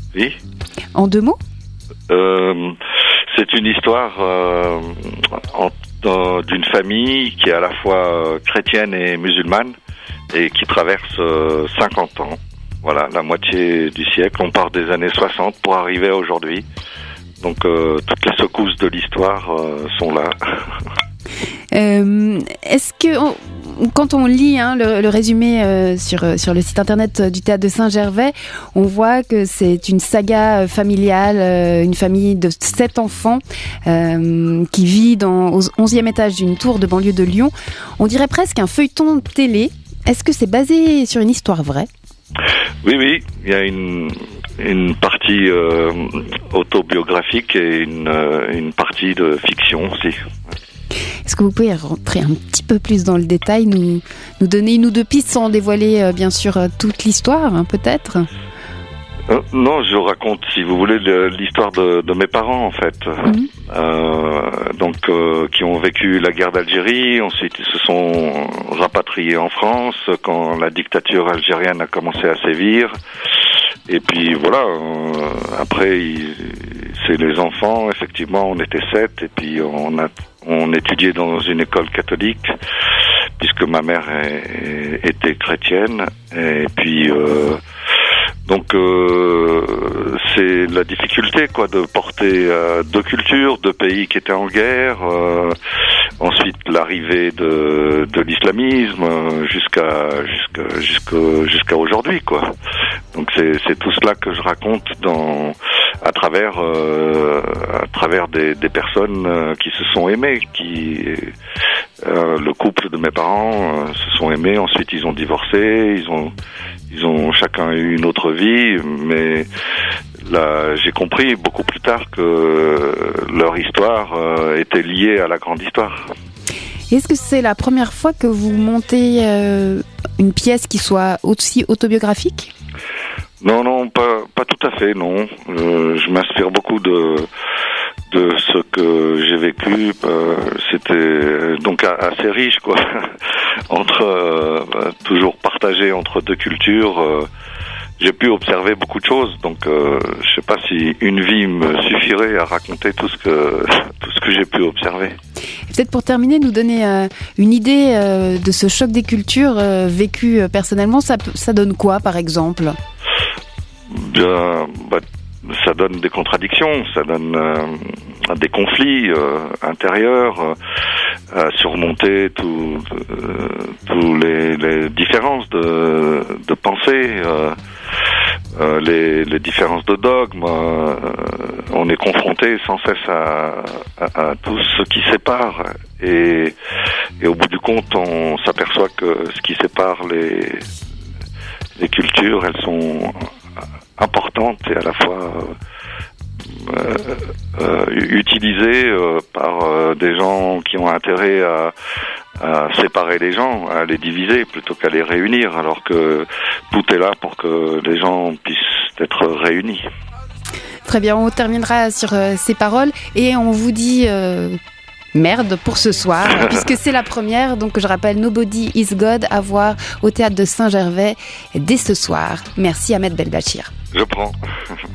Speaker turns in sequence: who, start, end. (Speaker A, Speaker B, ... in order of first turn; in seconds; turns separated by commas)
Speaker A: 0.9-1.4, Speaker B: 2.1-2.8, Speaker B: 3.3-9.7, Speaker B: 10.3-16.7, Speaker B: 17.4-20.7, Speaker A: 21.7-41.9, Speaker B: 42.8-50.2, Speaker A: 51.2-58.3, Speaker B: 59.3-72.9, Speaker B: 73.9-82.5, Speaker B: 83.4-87.6, Speaker B: 88.5-95.6, Speaker B: 96.2-102.5, Speaker B: 103.1-111.3, Speaker B: 112.0-116.3, Speaker B: 116.9-119.5, Speaker B: 120.3-126.1, Speaker A: 126.9-132.5, Speaker B: 133.4-137.3, Speaker B: 138.1-143.1, Speaker B: 143.7-147.3, Speaker B: 148.0-155.2, Speaker A: 155.7-162.8, Speaker B: 163.9-170.6, Speaker B: 171.3-177.6, Speaker B: 178.6-186.6, Speaker B: 187.2-190.6, Speaker B: 191.8-193.3, Speaker B: 194.0-195.5, Speaker B: 196.6-201.7, Speaker B: 202.4-209.8, Speaker A: 210.8-214.6, Speaker A: 215.1-223.7, Speaker B: 223.9-224.4